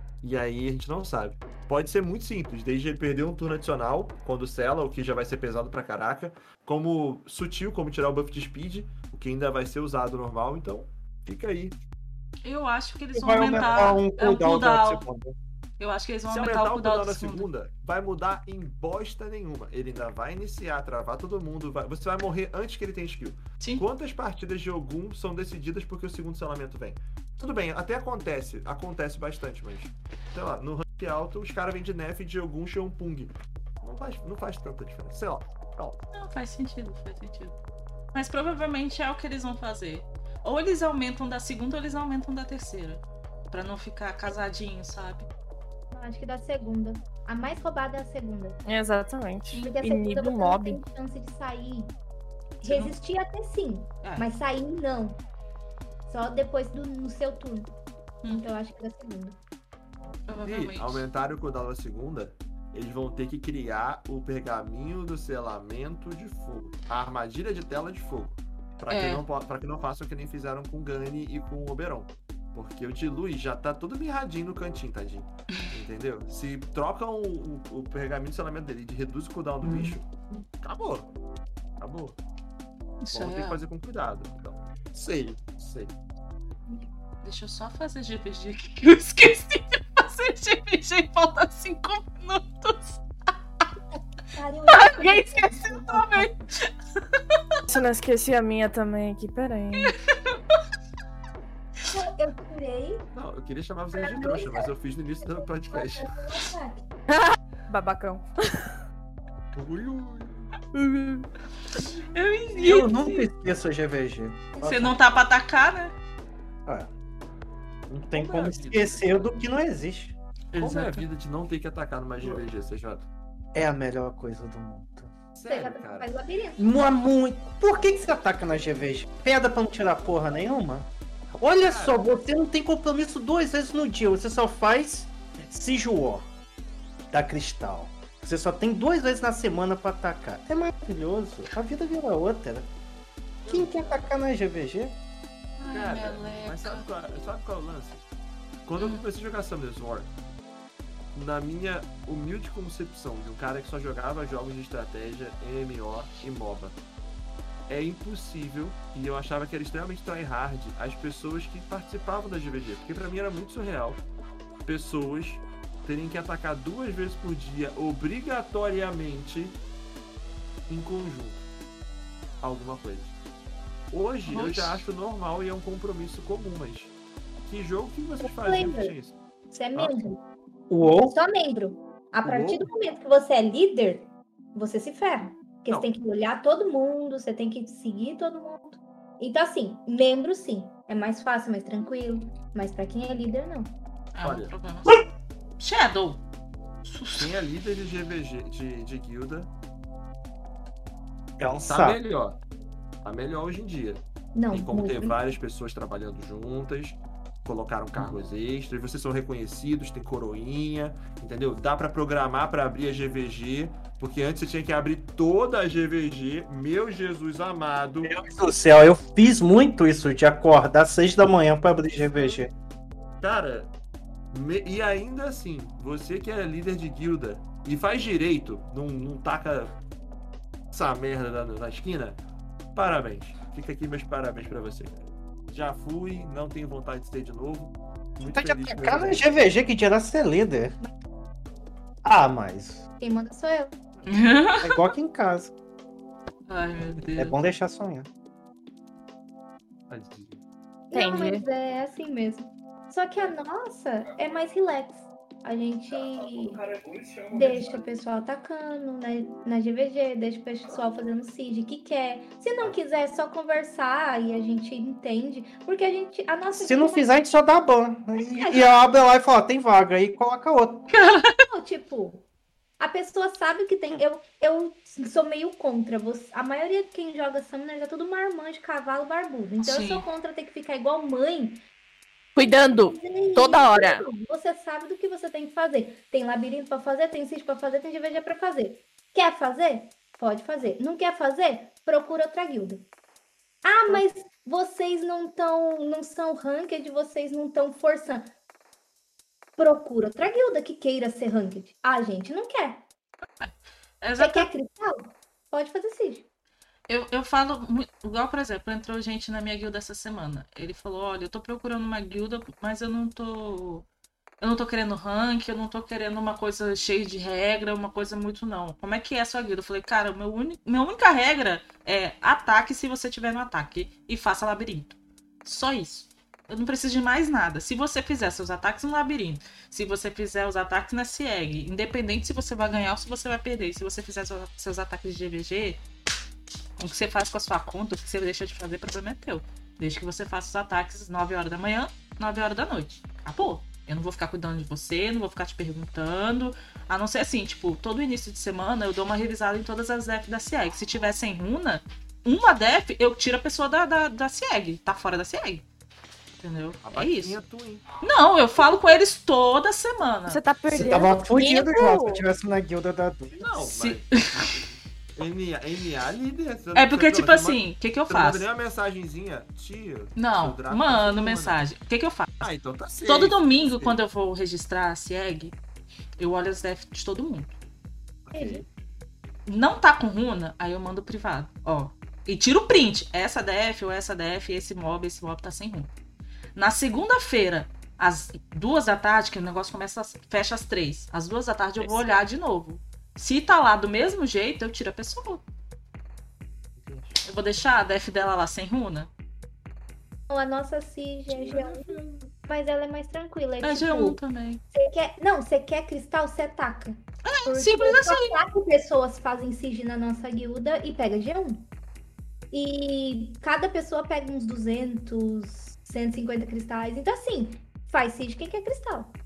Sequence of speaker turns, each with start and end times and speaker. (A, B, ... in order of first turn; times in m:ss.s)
0:00.2-0:11.8 A
0:12.4-0:15.0 B
0:13.1-0:15.4 C
0:13.4-0:14.0 A
0:15.8-0:17.5 B
0:16.3-0:36.0 A
0:36.1-0:37.5 B
0:38.1-0:45.3 B
0:45.9-0:48.6 D
0:48.6-0:50.8 E
0:49.5-0:51.9 D
0:52.6-0:53.0 B
0:52.6-0:55.2 D
0:54.0-0:54.3 B
0:56.1-0:57.7 D
0:58.2-0:58.5 B
0:58.3-0:59.4 D
1:00.3-1:01.0 B
1:00.4-1:20.1 A
1:08.9-1:09.2 B
1:19.6-1:20.0 B
1:20.6-1:21.1 A
1:21.8-1:22.2 A
1:23.0-1:23.6 B
1:23.1-1:25.9 A
1:27.2-1:33.0 B
1:34.0-1:36.3 D
1:34.7-1:36.7 B
1:37.7-1:40.0 E
1:39.8-1:40.6 B
1:41.9-1:43.0 D
1:43.1-1:46.2 A
1:44.0-1:46.9 D
1:47.1-1:48.7 E
1:49.5-1:50.5 A
1:50.7-1:51.3 E
1:52.1-1:53.3 B
1:52.5-1:55.0 C
1:54.6-1:55.9 B
1:57.9-2:00.2 C
1:57.9-1:59.3 A
2:00.5-2:01.0 B
2:00.6-2:03.1 A
2:03.5-2:05.1 C
2:05.4-2:06.1 A
2:05.5-2:06.8 D
2:06.6-2:16.3 C
2:11.6-2:12.0 A
2:17.1-2:22.7 C
2:23.4-2:24.1 A
2:23.5-2:25.0 C
2:25.6-2:26.9 B
2:25.7-2:28.0 A
2:28.7-2:30.1 A
2:28.8-2:29.0 B
2:31.2-2:36.8 A
2:37.7-2:44.0 A
2:44.6-2:49.6 A
2:50.7-2:51.4 A
2:52.4-2:53.2 A
2:53.9-2:56.9 A
2:54.3-2:54.8 B
2:57.4-2:59.2 A
2:58.2-2:58.9 D
2:59.5-3:00.2 D
3:00.7-3:01.1 C
3:01.0-3:13.7 D
3:02.2-3:02.7 A
3:14.1-3:15.0 B
3:14.2-3:14.5 A
3:15.6-3:16.2 B
3:16.8-3:17.3 B
3:17.2-3:19.5 A
3:21.4-3:22.0 C
3:21.6-3:22.4 A
3:23.0-3:38.2 A
3:24.4-3:25.2 D
3:38.0-3:42.5 C
3:42.1-3:42.4 A
3:43.2-3:43.7 A
3:44.3-3:49.8 A
3:50.7-3:52.2 A
3:52.8-3:59.4 A
3:58.2-4:00.8 C
4:02.0-4:02.8 C
4:03.0-4:03.7 D
4:04.1-4:04.8 B
4:04.6-4:05.5 C
4:06.5-4:07.4 B
4:07.2-4:08.1 C
4:09.9-4:10.4 A
4:10.9-4:16.6 D
4:10.9-4:11.4 E
4:17.3-4:27.1 D
4:26.5-4:30.9 C
4:28.4-4:28.7 D
4:30.9-4:31.4 B
4:31.5-4:32.2 D
4:32.8-4:41.6 D
4:39.6-4:40.0 B
4:42.4-4:44.1 E
4:42.4-4:52.9 D
4:53.6-4:58.3 D
4:59.6-5:02.8 D
5:03.4-5:04.5 B
5:04.2-5:06.3 D
5:06.9-5:13.9 B
5:14.4-5:35.8 B
5:36.8-5:55.6 B
5:56.4-5:57.4 B
5:56.8-5:57.9 A
5:58.0-6:00.4 B
6:00.3-6:02.2 E
6:00.7-6:03.4 C
6:03.3-6:11.6 A
6:03.6-6:04.5 B
6:06.8-6:08.5 B
6:10.2-6:12.5 B
6:12.4-6:14.0 A
6:13.1-6:15.6 B
6:16.2-6:17.5 B
6:18.2-6:18.7 A
6:18.3-6:18.6 D
6:19.5-6:25.9 B
6:26.6-6:35.4 B
6:36.8-6:37.2 A
6:37.2-6:39.1 B
6:40.3-6:44.2 D
6:41.3-6:42.3 A
6:43.6-6:44.6 B
6:44.7-6:51.7 D
6:47.2-6:48.4 B
6:52.5-6:59.2 D